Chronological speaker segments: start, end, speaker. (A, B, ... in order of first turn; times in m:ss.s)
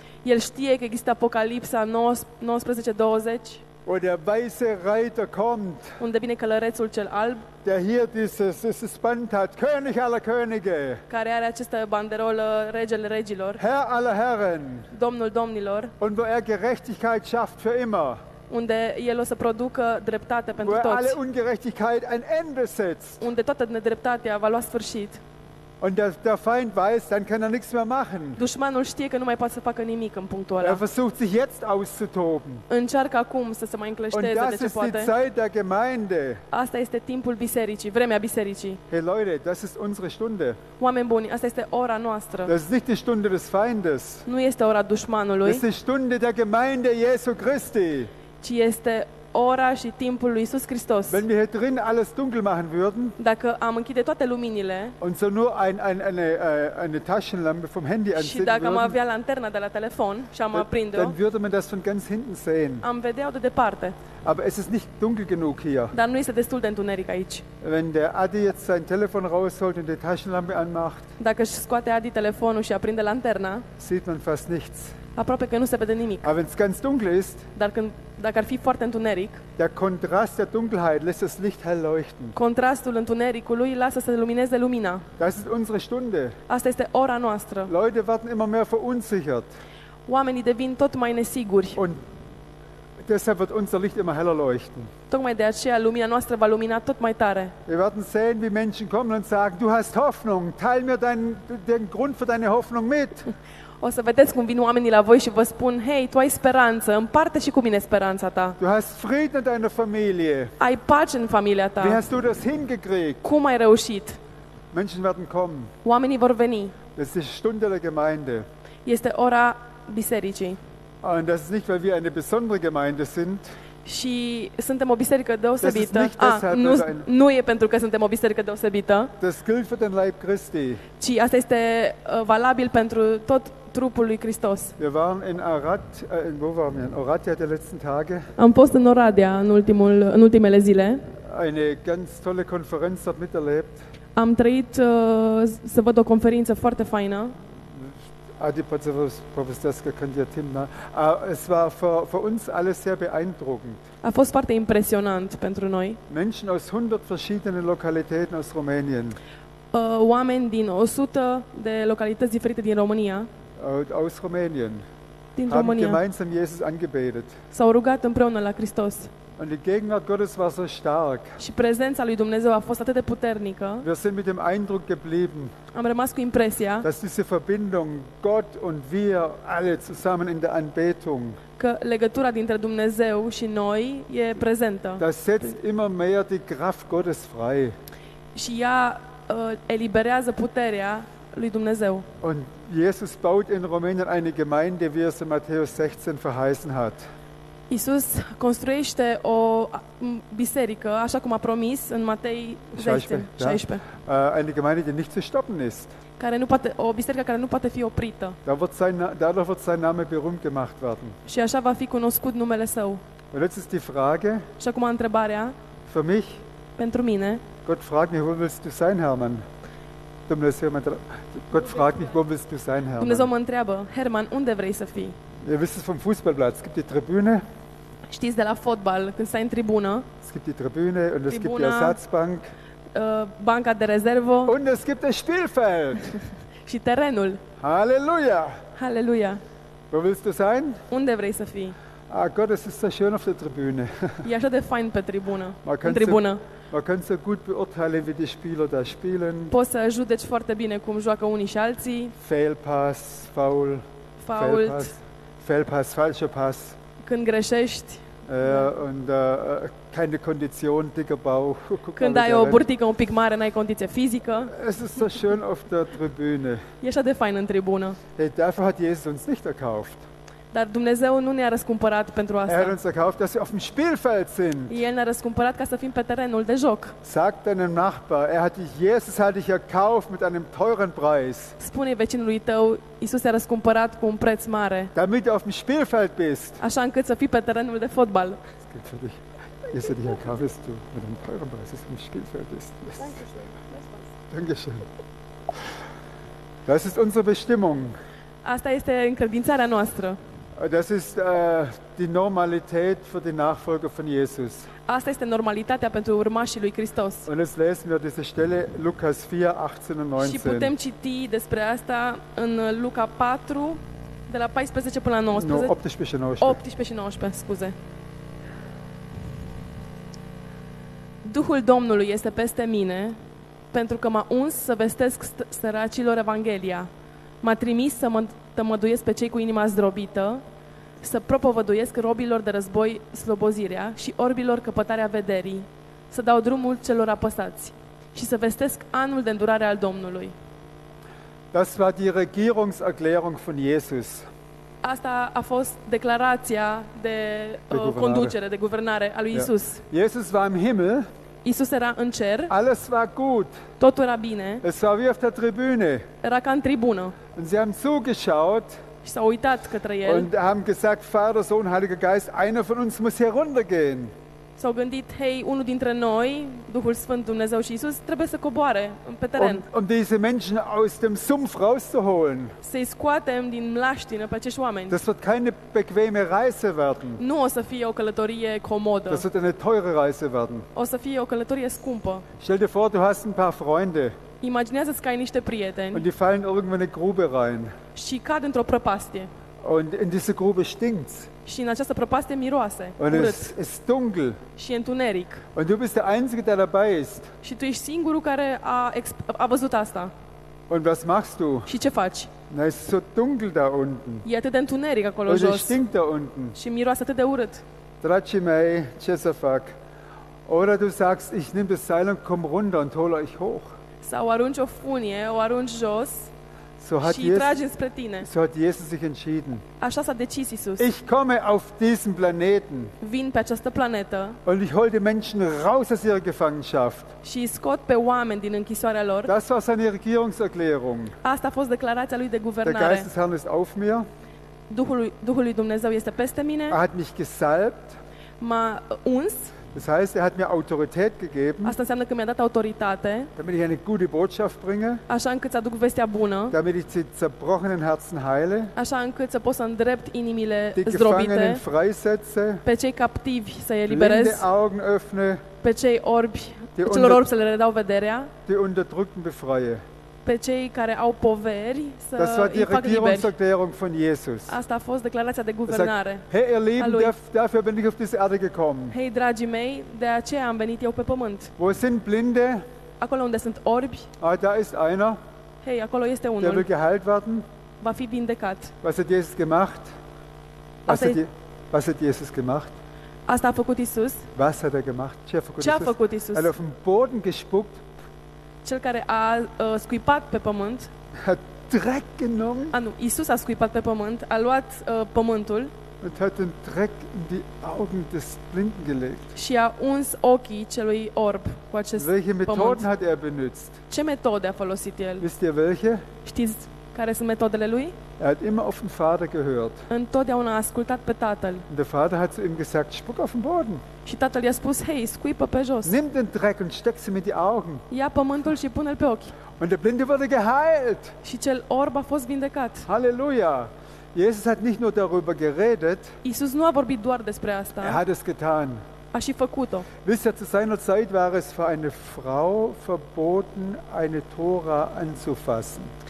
0:00.2-0:03.6 A
0:03.9-0:06.0 B
0:06.0-0:07.5 A
0:07.6-0:11.0 B
0:11.1-0:13.6 A
0:13.6-0:14.9 B
0:14.9-0:15.9 A
0:16.0-0:18.2 B
0:18.5-0:21.2 A
0:20.6-0:23.2 B
0:23.2-0:25.2 A
0:25.8-0:28.4 B
0:28.4-0:30.8 A
0:30.6-0:32.7 B
0:32.7-0:35.1 A
0:34.1-0:36.4 B
0:36.5-0:38.8 A
0:38.9-0:40.6 B
0:40.8-0:42.5 A
0:42.5-0:44.3 B
0:44.3-0:45.6 A
0:45.4-0:48.1 B
0:48.4-0:51.2 A
0:51.1-0:53.2 B
0:53.2-0:55.0 A
0:55.0-0:59.0 B
0:58.2-1:01.2 A
1:00.5-1:02.9 B
1:02.8-1:04.0 A
1:04.2-1:06.0 B
1:05.9-1:07.4 A
1:07.6-1:11.1 B
1:11.2-1:13.7 A
1:13.8-1:15.0 B
1:15.2-1:16.3 A
1:16.2-1:17.5 B
1:17.6-1:19.4 A
1:19.6-1:22.4 B
1:22.4-1:25.1 A
1:25.2-1:26.4 B
1:26.5-1:27.7 A
1:27.7-1:29.5 B
1:30.1-1:31.8 A
1:33.0-1:34.9 B
1:35.1-1:37.6 A
1:37.7-1:43.3 B
1:43.8-1:48.6 A
1:48.6-1:50.5 B
1:50.6-1:52.0 A
1:51.8-1:53.2 B
1:53.2-1:54.2 A
1:54.7-1:55.8 B
1:55.8-1:56.8 A
1:56.9-1:58.5 B
1:58.8-2:00.6 A
2:01.0-2:03.5 B
2:03.8-2:09.1 A
2:05.6-2:07.1 B
2:09.2-2:10.9 B
2:11.0-2:14.8 A
2:14.8-2:18.3 B
2:18.4-2:21.0 A
2:21.2-2:23.8 B
2:24.2-2:27.4 A
2:27.6-2:33.9 B
2:34.0-2:36.0 A
2:36.1-2:39.2 B
2:39.7-2:43.3 A
2:43.6-2:44.8 B
2:45.4-2:46.0 A
2:45.5-2:47.4 B
2:47.5-2:49.1 A
2:49.4-2:51.4 B
2:51.4-2:53.8 A
2:53.8-2:55.5 B
2:55.7-2:56.9 A
2:56.8-3:01.4 B
3:01.6-3:05.0 A
3:05.0-3:07.8 B
3:08.4-3:12.1 A
3:12.2-3:17.0 B
3:17.7-3:23.8 A
3:22.8-3:26.0 B
3:26.2-3:28.4 A
3:28.4-3:31.2 B
3:31.3-3:33.0 A
3:33.3-3:34.5 B
3:34.6-3:35.6 A
3:35.9-3:36.4 B
3:36.8-3:37.4 A
3:37.6-3:39.4 B
3:40.3-3:43.3 B
3:43.0-3:45.2 A
3:45.4-3:47.4 B
3:48.1-3:50.1 A
3:50.2-3:52.5 B
3:51.3-3:52.0 A
3:52.9-3:54.5 A
3:54.5-3:56.2 B
3:56.6-3:57.4 A
3:57.6-3:58.6 B
3:58.8-3:59.4 A
3:59.9-4:00.8 B
4:00.9-4:01.8 A
4:02.1-4:04.3 B
4:04.2-4:06.4 A
4:05.6-4:09.5 B
4:09.5-4:12.2 A
4:12.2-4:16.8 B
4:14.2-4:14.9 A
4:17.0-4:18.1 A
4:18.3-4:22.6 B
4:22.0-4:24.5 A
4:24.5-4:26.7 B
4:26.8-4:28.0 A
4:28.2-4:30.0 B
4:30.5-4:32.8 A
4:32.5-4:34.8 B
4:34.7-4:37.0 A
4:37.0-4:41.6 B
4:41.6-4:44.9 A
4:45.0-4:46.6 B
4:46.6-4:48.4 A
4:48.6-4:53.2 B
4:54.3-4:54.9 B
4:56.7-4:57.9 B
4:58.4-5:00.2 A
5:00.6-5:04.7 B
5:04.9-5:07.3 A
5:07.3-5:10.7 B
5:10.2-5:15.7 A
5:15.4-5:16.6 B
5:16.4-5:17.8 A
5:21.2-5:23.2 A
5:23.7-5:26.9 A
5:27.4-5:30.4 A
5:31.0-5:40.3 A
5:41.5-5:44.3 B
5:44.8-5:49.8 A
5:47.7-5:48.4 B
5:49.3-5:51.1 B
5:51.4-5:52.5 A
5:52.5-5:53.5 B
5:53.8-5:54.6 A
5:54.6-5:56.1 B
5:56.2-5:57.2 A
5:57.3-5:58.8 B
5:59.0-6:00.3 A
6:00.0-6:04.1 B
6:04.6-6:09.6 A
6:09.4-6:12.6 B
6:12.6-6:15.0 A
6:14.9-6:17.2 B
6:17.2-6:19.2 A
6:19.1-6:20.7 B
6:20.8-6:22.3 A
6:22.4-6:24.2 B
6:24.4-6:26.1 A
6:25.9-6:27.8 B
6:28.0-6:29.3 A
6:29.6-6:31.3 B
6:31.4-6:33.5 A
6:33.0-6:34.4 B
6:34.6-6:35.4 A
6:35.6-6:37.3 B
6:37.4-6:40.1 A
6:40.7-6:41.7 B
6:41.7-6:42.3 A
6:42.5-6:44.3 B
6:44.2-6:45.8 A
6:45.3-6:46.6 B
6:46.6-6:47.6 A
6:48.0-6:49.8 B
6:50.5-6:53.7 B
6:54.0-6:56.3 A
6:56.8-6:57.6 B
6:57.0-6:58.3 A
6:58.2-6:59.6 B
6:59.8-7:00.9 A
7:00.8-7:03.0 B
7:03.0-7:04.4 A
7:04.4-7:07.2 B
7:07.2-7:09.3 A
7:09.3-7:11.2 B
7:11.2-7:13.1 A
7:12.6-7:14.1 B
7:14.7-7:16.8 A
7:16.7-7:18.0 B
7:18.4-7:19.6 A
7:19.7-7:21.8 B
7:21.6-7:23.3 A
7:23.4-7:25.0 B
7:25.1-7:26.6 A
7:26.5-7:28.7 B
7:28.8-7:31.6 A
7:30.8-7:32.6 B
7:32.6-7:34.5 A
7:33.9-7:35.4 B
7:35.6-7:38.3 A
7:36.8-7:37.2 B
7:38.5-7:39.8 B
7:40.2-7:43.3 A
7:42.2-7:44.6 B
7:44.5-7:46.3 A
7:45.7-7:49.0 B
7:46.8-7:47.1 A
7:48.9-7:51.5 A
7:51.6-7:52.6 B
7:53.0-7:54.1 A
7:54.2-7:55.2 B
7:55.6-7:56.7 A
7:56.4-7:57.4 B
7:57.8-7:58.7 A
7:58.8-7:59.9 B
8:00.9-8:01.2 A
8:00.9-8:02.7 B
8:03.3-8:04.3 A
8:04.4-8:07.8 B
8:05.6-8:06.5 A
8:08.6-8:10.9 A
8:11.2-8:12.8 B
8:12.7-8:15.7 A
8:16.0-8:19.3 B
8:19.4-8:22.9 A
8:22.0-8:23.8 B
8:23.9-8:25.2 A
8:25.2-8:26.1 B
8:26.2-8:28.0 A
8:28.2-8:29.9 B
8:29.9-8:31.7 A
8:31.7-8:33.8 B
8:34.0-8:36.0 A
8:35.8-8:37.8 B
8:37.9-8:39.4 A
8:39.6-8:41.2 B
8:41.2-8:42.9 A
8:42.9-8:46.2 B
8:46.2-8:48.0 A
8:47.8-8:48.8 B
8:49.1-8:49.9 A
8:50.0-8:55.9 B